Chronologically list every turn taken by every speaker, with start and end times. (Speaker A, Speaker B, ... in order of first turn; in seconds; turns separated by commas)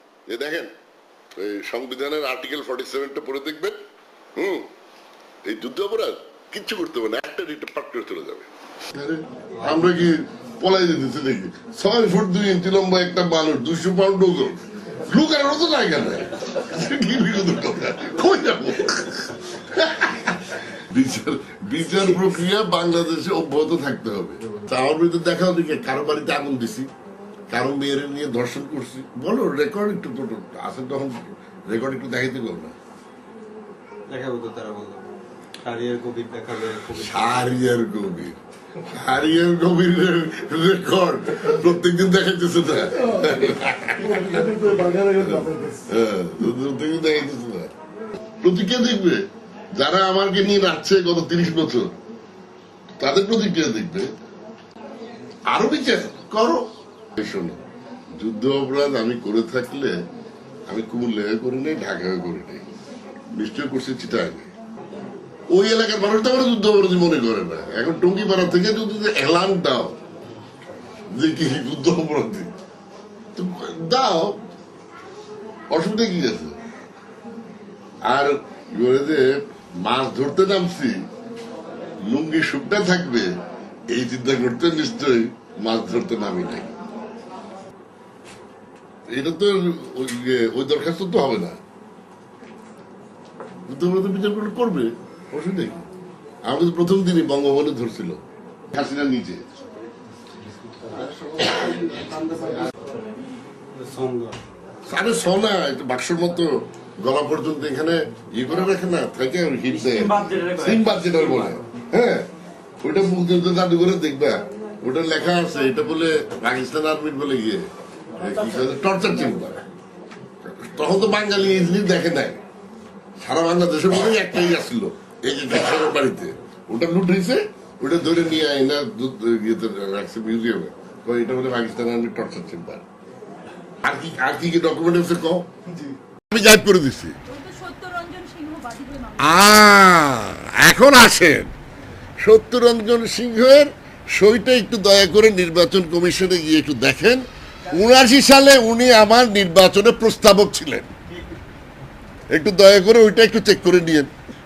Speaker A: 0.3-0.7, Speaker A: 1.4-3.8, Speaker A: 4.4-4.7, Speaker A: 5.5-26.9, Speaker B: 9.6-9.9, Speaker A: 27.5-32.7, Speaker B: 34.1-35.0, Speaker B: 35.6-37.5, Speaker A: 37.0-47.7, Speaker A: 48.4-49.2, Speaker A: 49.8-51.9, Speaker A: 53.0-54.1, Speaker A: 55.5-56.6, Speaker A: 57.2-57.6, Speaker A: 58.2-60.0, Speaker A: 60.7-62.6, Speaker A: 63.3-64.5, Speaker A: 65.5-70.0, Speaker A: 71.1-72.5, Speaker A: 73.3-74.4, Speaker A: 75.7-76.5, Speaker A: 78.0-81.0, Speaker A: 82.0-83.3, Speaker A: 83.9-86.8, Speaker A: 89.1-91.6, Speaker A: 93.7-95.8, Speaker A: 96.5-99.4, Speaker B: 100.7-102.7, Speaker A: 101.4-101.9, Speaker B: 103.7-104.4, Speaker A: 104.9-112.3, Speaker B: 109.9-110.8, Speaker A: 112.8-117.7, Speaker A: 118.2-119.6, Speaker A: 120.4-122.4, Speaker A: 123.2-132.8, Speaker A: 133.8-135.5, Speaker A: 136.3-137.2, Speaker C: 137.3-139.2, Speaker A: 139.2-141.5, Speaker A: 142.2-150.9, Speaker A: 152.3-154.1